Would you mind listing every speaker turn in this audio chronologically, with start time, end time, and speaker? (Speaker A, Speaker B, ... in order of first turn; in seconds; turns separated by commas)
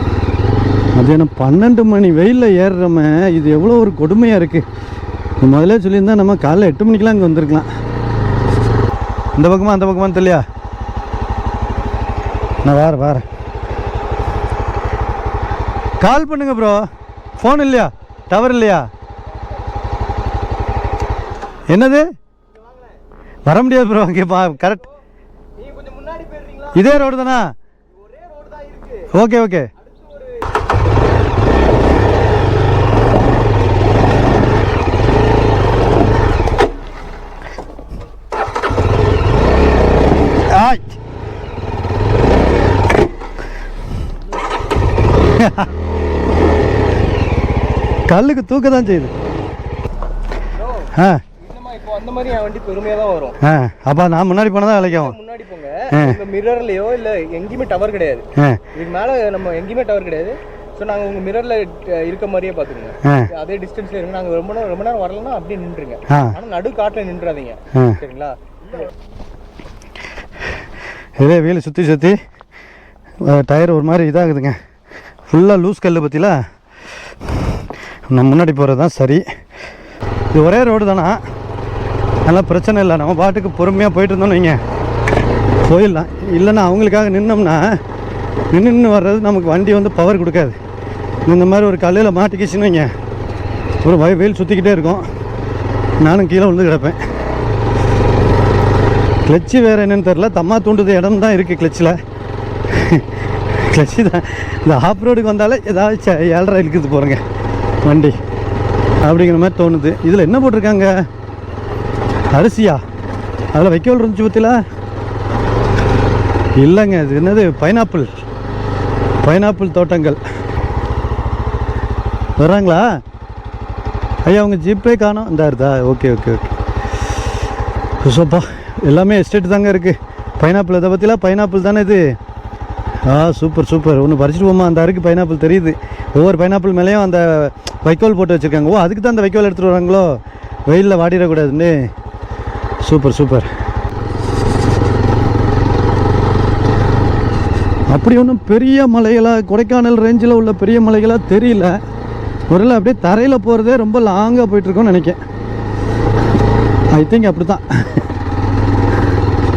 Speaker A: 0.9-4.6, Speaker A: 5.4-7.7, Speaker A: 9.3-10.4, Speaker A: 12.6-13.2, Speaker A: 16.0-16.9, Speaker A: 17.4-18.9, Speaker A: 21.7-22.1, Speaker A: 23.4-24.9, Speaker B: 25.6-26.8, Speaker A: 26.7-27.5, Speaker B: 28.1-29.1, Speaker A: 29.1-29.7, Speaker A: 40.5-40.9, Speaker A: 45.3-45.7, Speaker A: 48.1-49.1, Speaker B: 50.5-53.4, Speaker A: 50.9-51.2, Speaker A: 53.4-55.1, Speaker B: 54.8-68.4, Speaker A: 55.9-56.2, Speaker A: 58.4-58.6, Speaker A: 63.0-63.3, Speaker A: 66.1-66.3, Speaker A: 67.7-68.0, Speaker A: 71.2-72.2, Speaker A: 73.2-74.6, Speaker A: 75.3-76.4, Speaker A: 78.1-79.2, Speaker A: 80.3-81.2, Speaker A: 82.2-84.6, Speaker A: 85.6-87.8, Speaker A: 88.5-90.6, Speaker A: 91.3-92.9, Speaker A: 93.8-95.0, Speaker A: 96.0-97.0, Speaker A: 99.2-102.0, Speaker A: 102.7-107.2, Speaker A: 107.8-108.2, Speaker A: 109.0-110.9, Speaker A: 112.3-112.8, Speaker A: 113.5-114.6, Speaker A: 116.6-118.1, Speaker A: 119.2-120.2, Speaker A: 122.4-122.9, Speaker A: 124.2-126.5, Speaker A: 128.0-132.0, Speaker A: 133.1-140.1, Speaker A: 140.7-141.8, Speaker A: 142.8-143.5, Speaker A: 147.9-151.7, Speaker A: 152.5-155.2, Speaker A: 156.9-157.8